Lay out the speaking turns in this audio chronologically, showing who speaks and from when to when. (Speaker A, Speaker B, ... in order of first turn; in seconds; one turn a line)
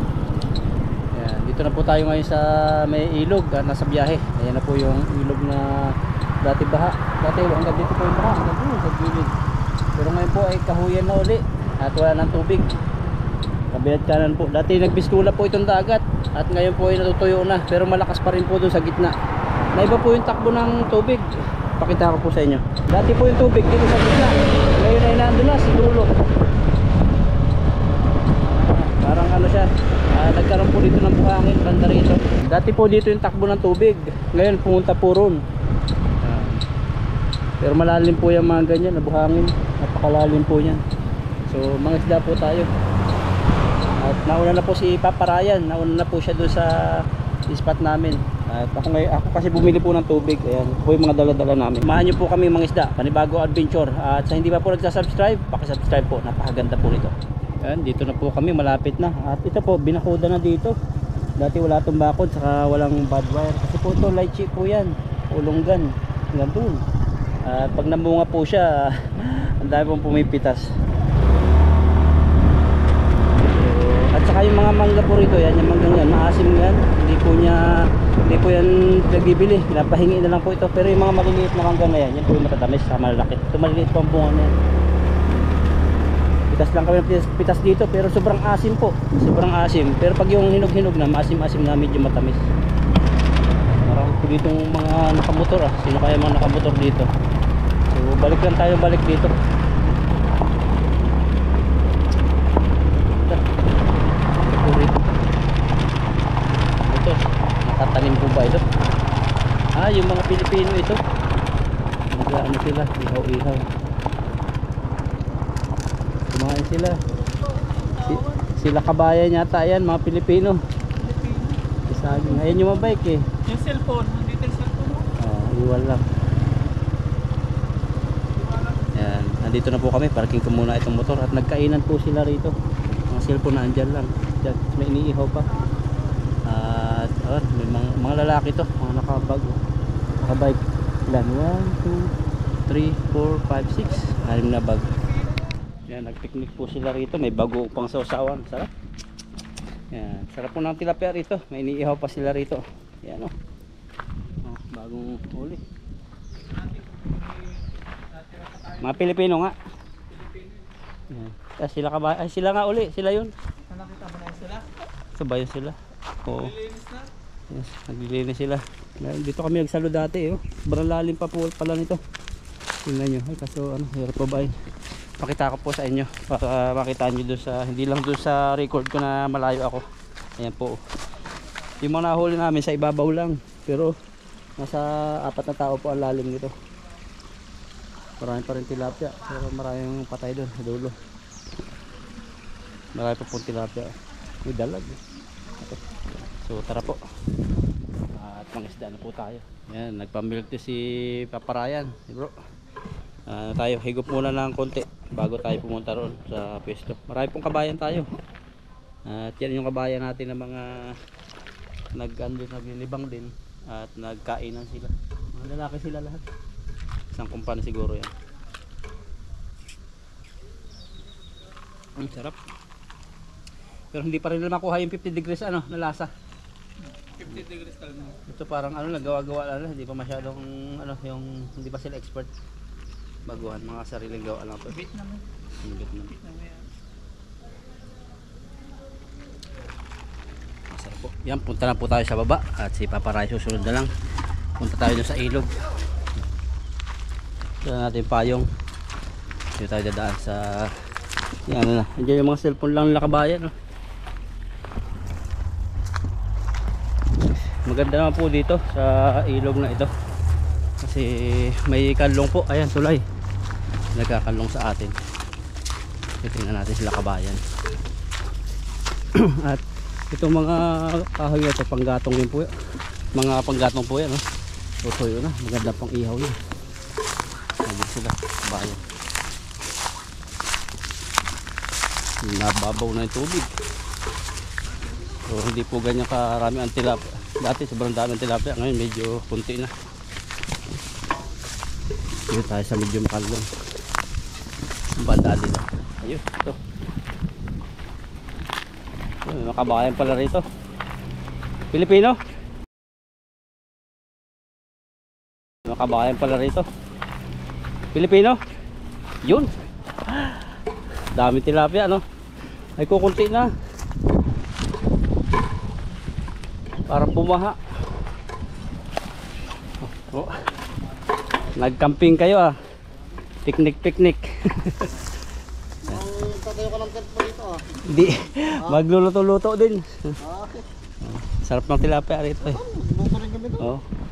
Speaker A: 1.1-9.3
Speaker A: 9.9-12.7
Speaker A: 13.7-19.1
Speaker A: 19.7-26.1
Speaker A: 28.4-35.4
Speaker A: 36.2-36.6
Speaker A: 37.6-40.8
Speaker A: 41.5-42.7
Speaker A: 44.0-60.8
Speaker A: 61.4-66.8
Speaker A: 67.4-70.7
Speaker A: 73.3-84.5
Speaker A: 86.5-92.4
Speaker A: 93.8-97.1
Speaker A: 97.9-99.3
Speaker A: 104.4-105.1
Speaker A: 106.8-108.7
Speaker A: 109.7-111.0
Speaker A: 112.1-113.7
Speaker A: 116.3-117.0
Speaker B: 117.8-118.4
Speaker A: 118.0-120.6
Speaker B: 121.0-122.8
Speaker A: 121.9-123.3
Speaker B: 123.4-125.1
Speaker A: 125.2-126.0
Speaker B: 128.3-128.9
Speaker A: 128.9-132.5
Speaker A: 133.1-135.5
Speaker A: 136.4-139.6
Speaker A: 140.2-142.1
Speaker A: 142.7-145.0
Speaker A: 145.9-148.7
Speaker A: 149.9-153.3
Speaker A: 154.4-155.6
Speaker B: 156.4-159.0
Speaker A: 158.8-159.6
Speaker B: 160.1-160.6
Speaker A: 161.1-163.3
Speaker B: 163.7-164.7
Speaker A: 165.1-166.5
Speaker B: 166.3-167.1
Speaker A: 167.5-172.0
Speaker A: 172.8-174.5
Speaker A: 175.2-179.8
Speaker A: 180.4-180.8
Speaker A: 181.8-183.9
Speaker A: 184.6-186.5
Speaker A: 188.2-190.9
Speaker A: 192.9-193.9
Speaker A: 194.4-195.0
Speaker A: 196.4-197.0
Speaker A: 198.1-202.3
Speaker A: 203.3-208.1
Speaker A: 209.1-210.9
Speaker A: 211.9-216.2
Speaker A: 217.1-218.1
Speaker A: 221.9-222.4
Speaker A: 223.9-226.1
Speaker B: 227.2-228.2
Speaker A: 228.2-232.3
Speaker A: 233.2-234.8
Speaker B: 234.7-235.2
Speaker A: 235.6-236.1
Speaker B: 236.1-236.6
Speaker A: 240.7-243.9
Speaker A: 244.6-245.5
Speaker A: 247.6-248.5
Speaker A: 249.6-250.8
Speaker A: 251.4-253.5
Speaker A: 257.5-259.9
Speaker A: 260.8-263.0
Speaker A: 263.9-264.9
Speaker A: 266.2-267.4
Speaker A: 269.1-272.5
Speaker A: 273.1-274.2
Speaker A: 274.8-276.4
Speaker A: 277.6-278.8
Speaker A: 282.2-283.5
Speaker A: 285.2-289.7
Speaker A: 292.3-293.5
Speaker A: 294.9-296.6
Speaker A: 299.2-300.4
Speaker A: 301.7-302.2
Speaker A: 305.6-306.7
Speaker A: 307.9-308.4
Speaker A: 309.2-309.5
Speaker A: 310.1-310.5
Speaker A: 311.1-312.0
Speaker A: 312.8-313.5
Speaker A: 316.9-317.6
Speaker A: 319.8-320.3
Speaker A: 321.5-322.5
Speaker A: 323.4-324.9
Speaker C: 325.9-327.8
Speaker A: 327.9-330.1
Speaker C: 330.2-330.6
Speaker A: 331.0-332.6
Speaker C: 332.4-333.7